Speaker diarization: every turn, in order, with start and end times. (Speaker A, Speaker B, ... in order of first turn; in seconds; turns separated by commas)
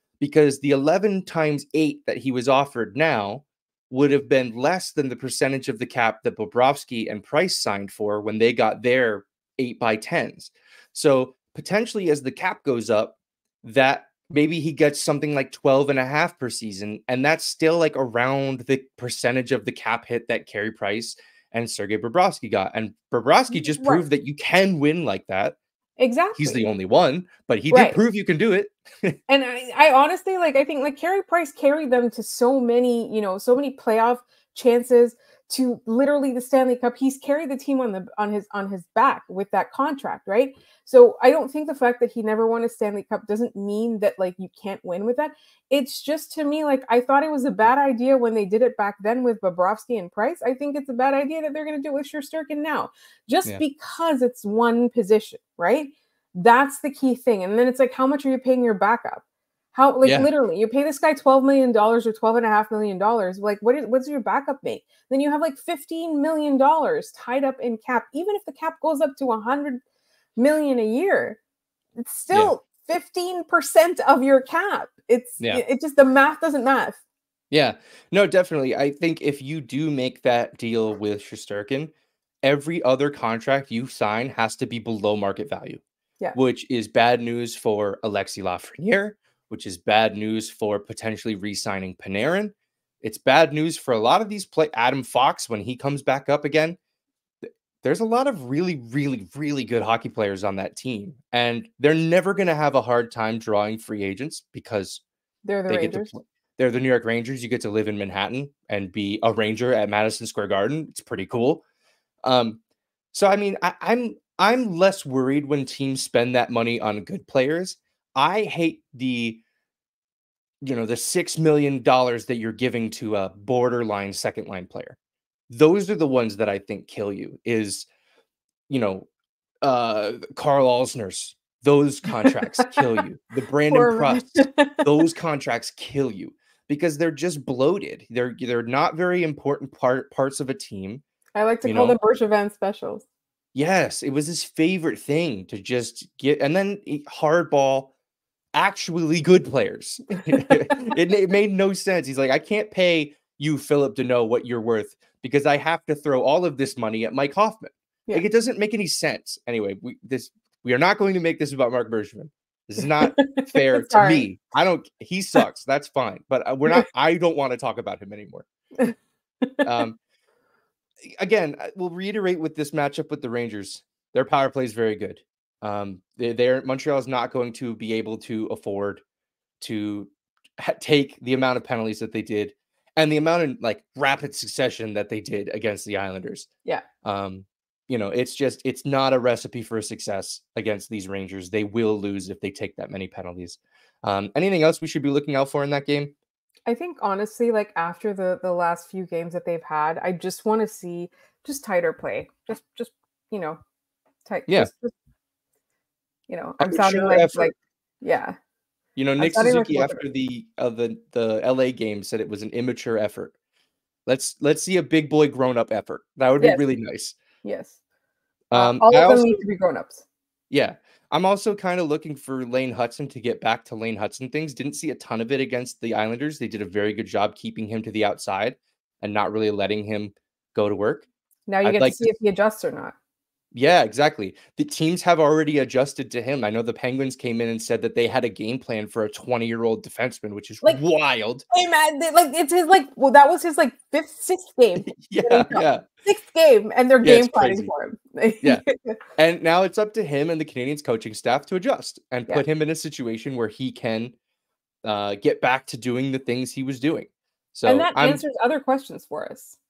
Speaker A: 0.2-25.6, Speaker B: 23.5-24.0, Speaker B: 26.0-26.6, Speaker A: 26.3-29.2, Speaker B: 27.7-28.0, Speaker B: 29.3-69.8, Speaker A: 60.0-60.3, Speaker B: 70.4-71.4, Speaker B: 72.0-77.0, Speaker A: 77.5-81.9, Speaker A: 82.4-85.8, Speaker A: 86.3-96.8, Speaker A: 97.8-105.0, Speaker B: 105.4-106.1, Speaker A: 105.7-111.6, Speaker A: 112.2-112.6, Speaker A: 113.1-119.4, Speaker A: 120.6-125.0, Speaker A: 125.5-127.9, Speaker A: 128.7-129.1, Speaker A: 129.6-141.0, Speaker B: 132.2-132.8, Speaker B: 133.7-135.0, Speaker B: 141.3-143.0, Speaker A: 141.6-142.0, Speaker A: 143.5-147.9, Speaker A: 148.5-168.4, Speaker B: 150.3-150.6, Speaker B: 163.0-164.3, Speaker B: 168.8-169.8, Speaker A: 169.6-170.0, Speaker A: 171.1-179.0, Speaker A: 179.6-186.5, Speaker A: 187.0-196.1, Speaker B: 196.7-203.6, Speaker B: 204.2-204.9, Speaker B: 206.3-208.3, Speaker A: 206.6-207.5, Speaker A: 208.9-213.3, Speaker B: 209.2-210.0, Speaker A: 214.1-217.2, Speaker B: 217.4-217.8, Speaker A: 218.5-219.3, Speaker B: 218.5-220.0, Speaker A: 220.5-231.1, Speaker B: 231.5-232.9, Speaker A: 231.6-232.1, Speaker A: 233.5-241.4, Speaker B: 241.5-249.0, Speaker A: 244.8-245.8, Speaker A: 247.0-247.7, Speaker A: 249.2-254.1, Speaker A: 254.8-258.2, Speaker B: 257.7-259.6